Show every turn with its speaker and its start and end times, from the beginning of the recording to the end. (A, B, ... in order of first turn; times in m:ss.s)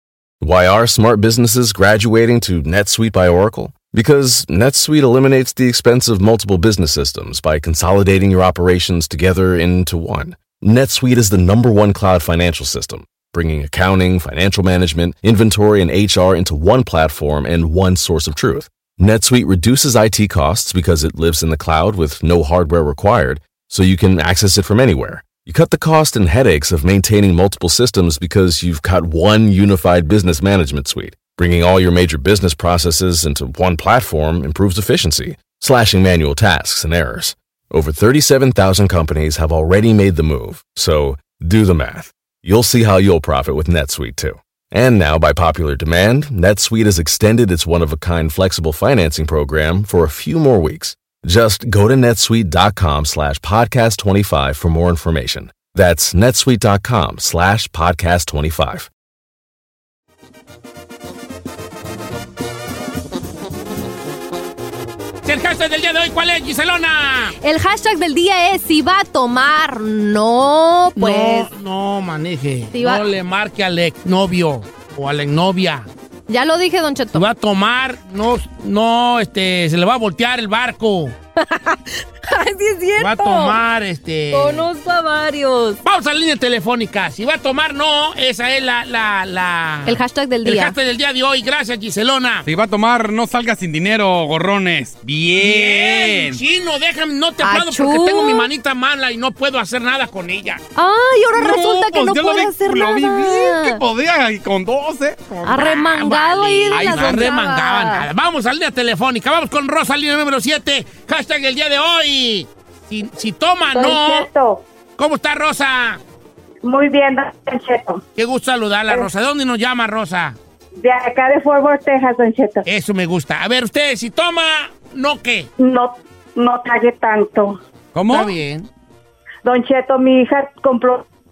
0:00.4-0:58.9 A
1:05.2-1:07.3 B
1:07.4-1:11.5 C
1:11.0-1:15.9 B
1:12.7-1:13.0 C
1:16.3-1:17.2 C
1:17.1-1:21.1 B
1:21.4-1:23.6 C
1:23.0-1:24.7 B
1:24.3-1:25.8 C
1:25.8-1:32.5 B
1:29.8-1:30.7 C
1:32.4-1:36.4 D
1:35.4-1:40.6 B
1:37.4-1:38.5 C
1:40.8-1:43.8 C
1:41.4-1:45.3 D
1:45.3-1:54.3 B
1:45.4-1:48.0 C
1:46.7-1:47.3 D
1:53.7-1:54.6 E
1:55.0-1:56.0 B
1:56.6-1:58.0 E
1:58.2-2:00.4 B
2:00.8-2:02.6 E
2:02.6-2:05.5 B
2:05.6-2:07.6 E
2:07.9-2:08.3 D
2:08.1-2:08.7 B
2:09.4-2:11.0 E